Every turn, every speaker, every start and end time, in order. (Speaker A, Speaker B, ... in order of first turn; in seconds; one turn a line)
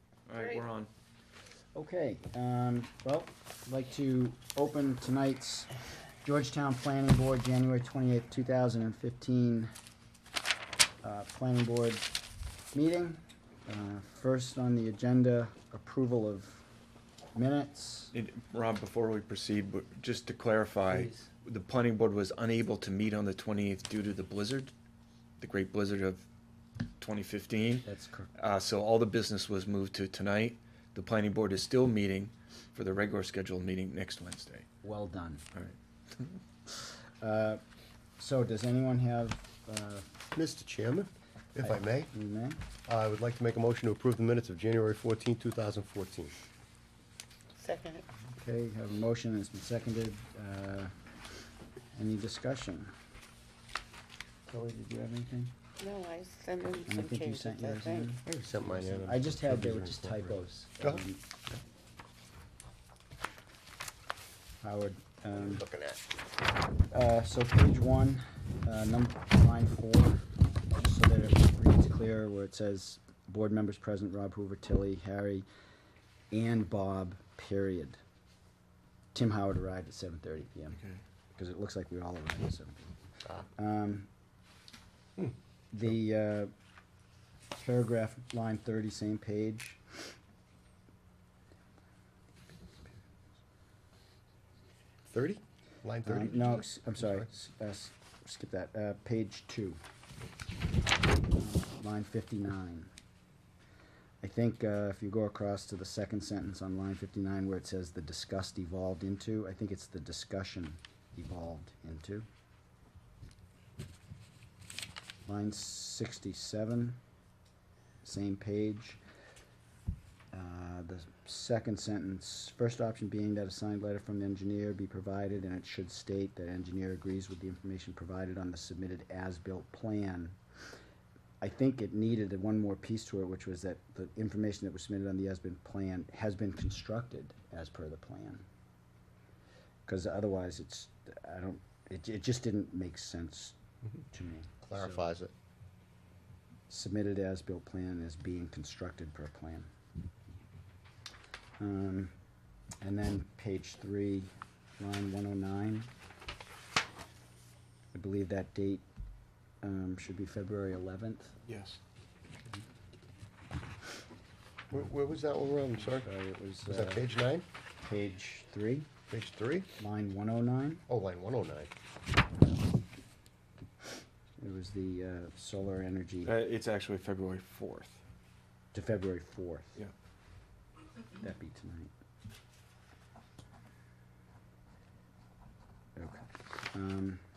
Speaker A: 0.3-0.9
Speaker B: 0.3-0.6
Speaker C: 1.7-5.7
Speaker C: 6.2-9.7
Speaker C: 11.0-12.1
Speaker C: 12.7-16.6
Speaker C: 17.3-18.1
Speaker A: 18.1-24.7
Speaker C: 20.9-21.3
Speaker A: 25.4-26.2
Speaker A: 27.0-34.7
Speaker C: 27.8-28.3
Speaker C: 34.8-35.4
Speaker C: 37.2-37.6
Speaker C: 38.2-40.1
Speaker D: 40.3-42.1
Speaker C: 41.6-42.6
Speaker D: 42.9-46.4
Speaker B: 47.6-48.0
Speaker C: 48.3-50.9
Speaker C: 51.9-52.9
Speaker C: 54.5-55.5
Speaker B: 55.8-58.1
Speaker C: 56.9-58.2
Speaker D: 58.2-61.6
Speaker C: 58.9-61.2
Speaker C: 64.6-65.6
Speaker D: 65.3-66.0
Speaker C: 66.9-75.5
Speaker C: 76.3-78.0
Speaker C: 79.1-80.8
Speaker A: 80.7-81.0
Speaker C: 81.3-82.9
Speaker C: 83.5-84.1
Speaker C: 85.7-86.5
Speaker C: 87.6-89.8
Speaker D: 95.1-97.2
Speaker C: 96.0-99.8
Speaker C: 101.3-102.9
Speaker C: 104.2-112.2
Speaker C: 115.2-117.0
Speaker C: 118.0-119.0
Speaker C: 120.3-130.4
Speaker C: 131.4-138.4
Speaker C: 139.8-143.6
Speaker C: 144.1-145.0
Speaker D: 144.6-145.3
Speaker C: 146.7-149.7
Speaker C: 151.6-152.1
Speaker C: 152.8-155.9
Speaker C: 157.9-158.8
Speaker C: 159.6-161.3
Speaker A: 161.4-161.8
Speaker D: 164.7-166.1
Speaker C: 165.9-167.1
Speaker D: 166.7-167.4
Speaker C: 167.8-168.9
Speaker D: 169.1-169.7
Speaker C: 169.8-170.8
Speaker D: 170.9-171.7
Speaker C: 174.4-176.3
Speaker A: 176.2-178.0
Speaker C: 178.7-179.8
Speaker C: 181.2-181.9
Speaker C: 185.9-187.2